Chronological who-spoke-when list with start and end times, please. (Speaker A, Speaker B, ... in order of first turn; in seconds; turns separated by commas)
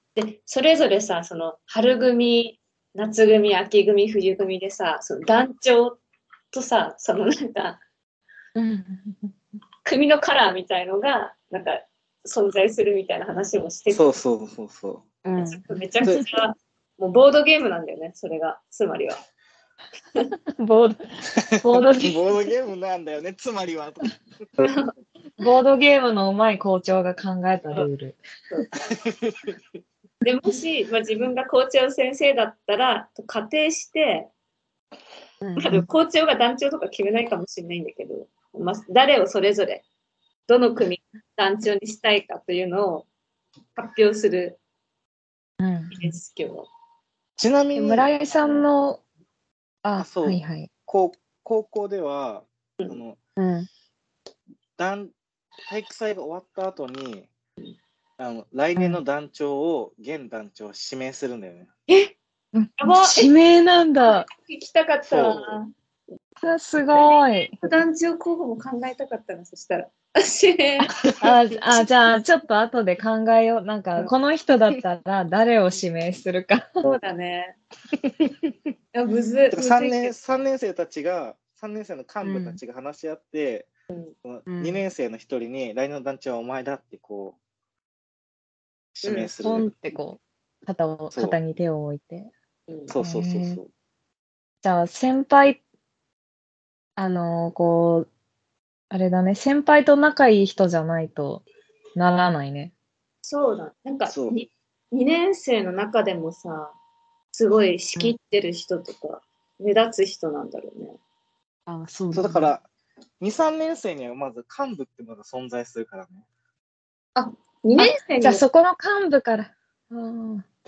Speaker A: 0.1-6.0, Speaker A: 6.5-7.8, Speaker B: 8.6-9.3, Speaker A: 9.8-14.0, Speaker C: 13.9-15.0, Speaker B: 15.2-16.2, Speaker A: 15.5-19.2, Speaker B: 20.6-21.0, Speaker C: 21.5-24.2, Speaker B: 21.6-22.2, Speaker A: 24.6-24.9, Speaker B: 25.4-28.2, Speaker C: 28.9-29.5, Speaker A: 30.2-34.3, Speaker B: 35.4-35.9, Speaker A: 35.6-39.8, Speaker A: 40.5-43.1, Speaker A: 43.8-44.6, Speaker B: 45.6-45.9, Speaker A: 45.9-46.7, Speaker C: 47.4-48.1, Speaker B: 47.7-49.0, Speaker B: 49.8-50.7, Speaker C: 50.0-53.2, Speaker B: 53.4-53.7, Speaker C: 54.8-55.1, Speaker C: 55.6-57.3, Speaker C: 58.2-61.7, Speaker A: 61.9-62.1, Speaker B: 62.5-64.3, Speaker A: 62.8-63.3, Speaker A: 64.0-65.7, Speaker C: 65.1-65.6, Speaker B: 66.4-67.6, Speaker A: 66.9-71.0, Speaker B: 71.2-76.7, Speaker A: 76.8-77.5, Speaker C: 78.0-78.5, Speaker A: 78.9-80.1, Speaker C: 79.5-83.7, Speaker B: 82.2-82.6, Speaker C: 84.2-87.4, Speaker B: 84.5-84.8, Speaker C: 88.9-89.7, Speaker A: 89.0-89.3, Speaker B: 89.4-92.3, Speaker C: 92.9-93.7, Speaker B: 93.0-93.6, Speaker B: 94.6-95.6, Speaker B: 97.0-98.1, Speaker B: 98.9-101.4, Speaker B: 102.0-102.7, Speaker A: 103.2-106.8, Speaker C: 104.1-104.3, Speaker A: 107.3-111.0, Speaker B: 111.7-112.5, Speaker C: 112.1-112.6, Speaker C: 113.2-116.2, Speaker A: 117.2-118.4, Speaker B: 117.8-120.5